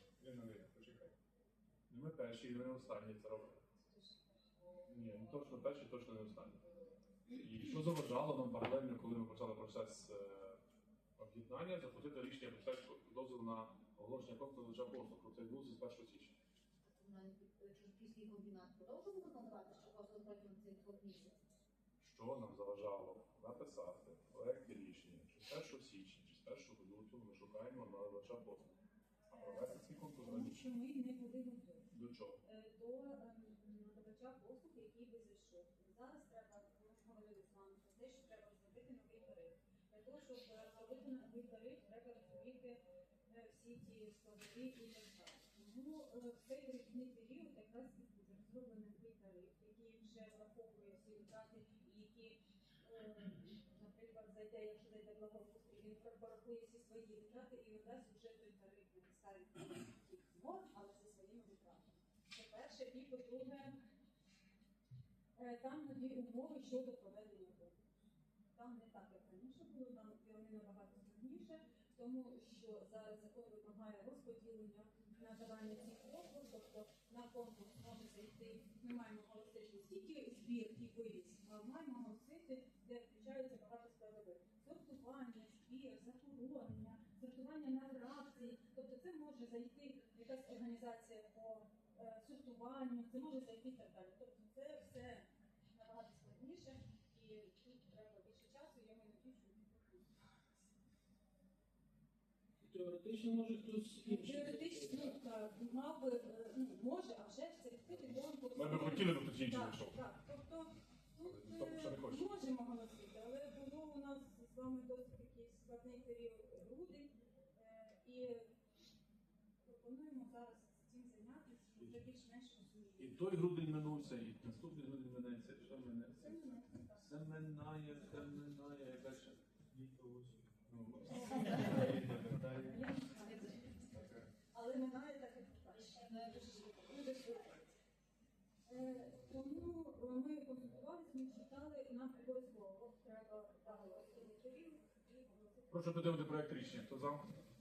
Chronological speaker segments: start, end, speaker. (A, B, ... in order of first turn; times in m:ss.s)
0:00.2-0:01.1 A
0:01.9-0:03.6 A
0:04.9-0:06.6 A
0:07.3-0:10.6 A
0:11.2-0:16.4 A
0:16.9-0:21.3 B
0:22.0-0:28.7 A
0:29.3-0:30.7 A
0:29.3-0:31.9 C
0:31.9-0:32.4 A
0:32.4-1:03.8 C
1:05.4-1:07.8 C
1:08.6-1:40.1 C
1:42.6-1:45.2 A
1:44.0-1:58.5 C
1:48.5-1:50.0 A
1:51.2-1:52.2 A
1:59.6-2:03.2 C
2:03.0-2:12.7 A
2:06.2-2:07.0 C
2:11.1-2:12.0 C
2:12.6-2:13.8 C
2:14.5-2:17.7 C
2:18.7-2:26.7 C
2:25.7-2:27.3 A